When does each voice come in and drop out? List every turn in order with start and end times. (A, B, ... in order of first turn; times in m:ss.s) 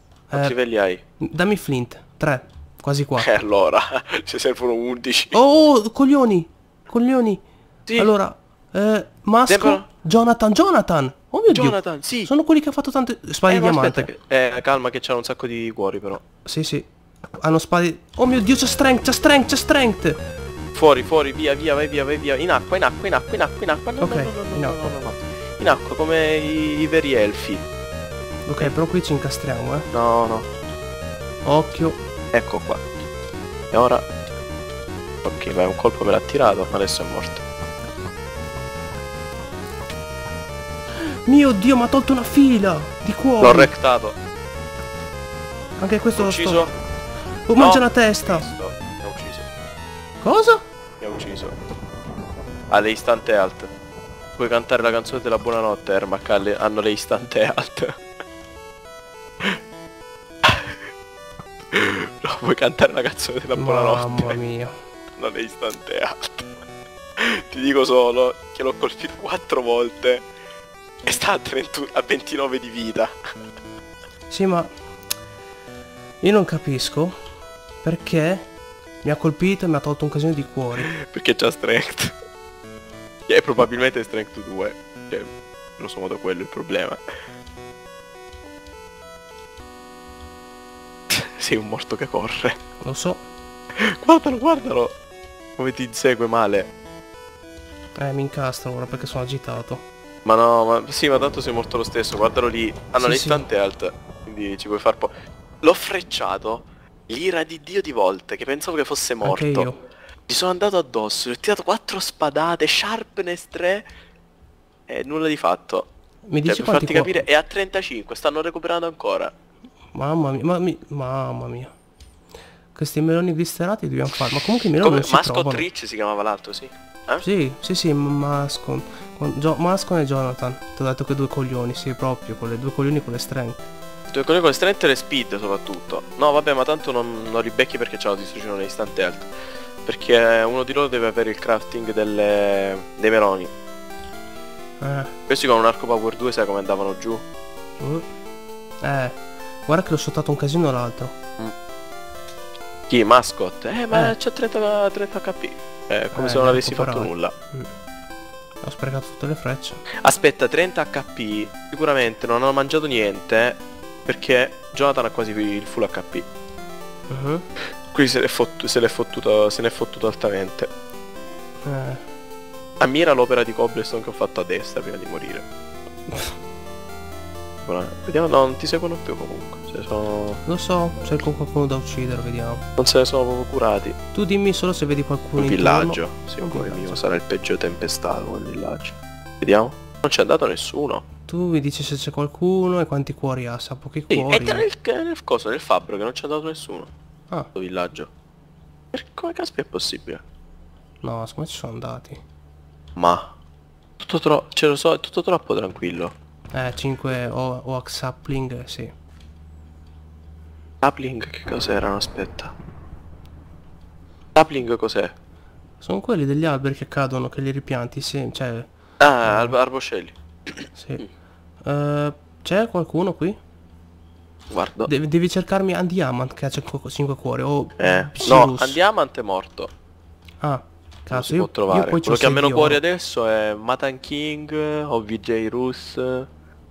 0:00.3-0:00.6 A
0:00.3-0:01.0 B
0:01.2-0:03.3 A
0:03.2-0:05.4 B
0:05.3-0:07.4 A
0:07.9-0:08.1 B
0:08.0-0:14.1 A
0:09.5-0:09.9 B
0:11.5-0:12.3 B
0:13.5-0:16.2 B
0:16.4-0:20.2 A
0:20.8-0:27.6 B
0:24.0-0:25.1 A
0:28.5-0:29.9 A
0:29.9-0:30.5 B
0:31.4-0:32.0 A
0:32.3-0:32.8 B
0:33.7-0:34.0 B
0:35.2-0:37.4 B
0:41.0-0:43.7 A
0:43.4-0:44.2 B
0:45.8-0:46.7 A
0:46.2-0:46.7 B
0:47.5-0:48.5 A
0:47.6-0:49.5 B
0:50.2-0:50.6 A
0:51.0-0:51.6 B
0:52.7-0:53.7 B
0:54.4-0:58.0 B
1:00.4-1:00.8 B
1:01.7-1:04.4 B
1:03.5-1:04.7 A
1:05.2-1:06.5 B
1:07.2-1:10.3 B
1:11.0-1:13.2 B
1:14.3-1:14.7 A
1:16.2-1:17.2 A
1:17.8-1:18.5 A
1:19.0-1:20.9 A
1:20.8-1:22.2 B
1:23.3-1:27.0 B
1:31.1-1:32.6 B
1:32.8-1:33.2 A
1:33.7-1:34.9 B
1:35.6-1:36.7 B
1:38.0-1:39.8 A
1:40.2-1:49.7 B
1:43.0-1:43.5 A
1:49.2-1:49.8 A
1:50.3-1:53.9 B
1:54.9-1:55.9 B
1:56.3-1:57.2 A
1:56.5-1:59.3 B
1:59.9-2:01.7 A
2:02.8-2:05.7 A
2:04.8-2:07.2 B
2:07.2-2:13.6 A
2:14.1-2:19.3 B
2:19.8-2:23.5 B
2:24.8-2:25.1 A
2:25.3-2:27.2 B
2:28.8-2:31.2 A
2:32.9-2:37.3 B
2:36.1-2:37.7 A
2:38.6-2:39.8 A
2:40.0-2:46.3 B
2:47.1-2:47.5 A
2:47.9-2:50.7 B
2:51.6-2:52.0 A
2:52.8-2:55.5 B
2:57.6-3:00.4 B
3:00.5-3:02.6 A
3:02.8-3:04.0 B
3:04.1-3:07.0 A
3:05.4-3:11.0 B
3:11.3-3:14.7 A
3:14.1-3:16.9 B
3:17.6-3:18.1 B
3:18.9-3:20.2 B
3:21.0-3:22.2 A
3:23.0-3:23.3 B
3:24.0-3:26.1 B
3:26.5-3:28.9 A
3:30.8-3:32.5 B
3:34.4-3:35.1 B
3:35.8-3:38.7 A
3:39.0-3:40.7 B
3:39.2-3:39.6 A
3:40.8-3:41.1 A
3:41.6-3:43.4 A
3:44.5-3:44.9 B
3:44.9-3:48.8 A
3:47.8-3:49.7 B
3:50.4-3:52.8 A
3:51.1-3:56.3 B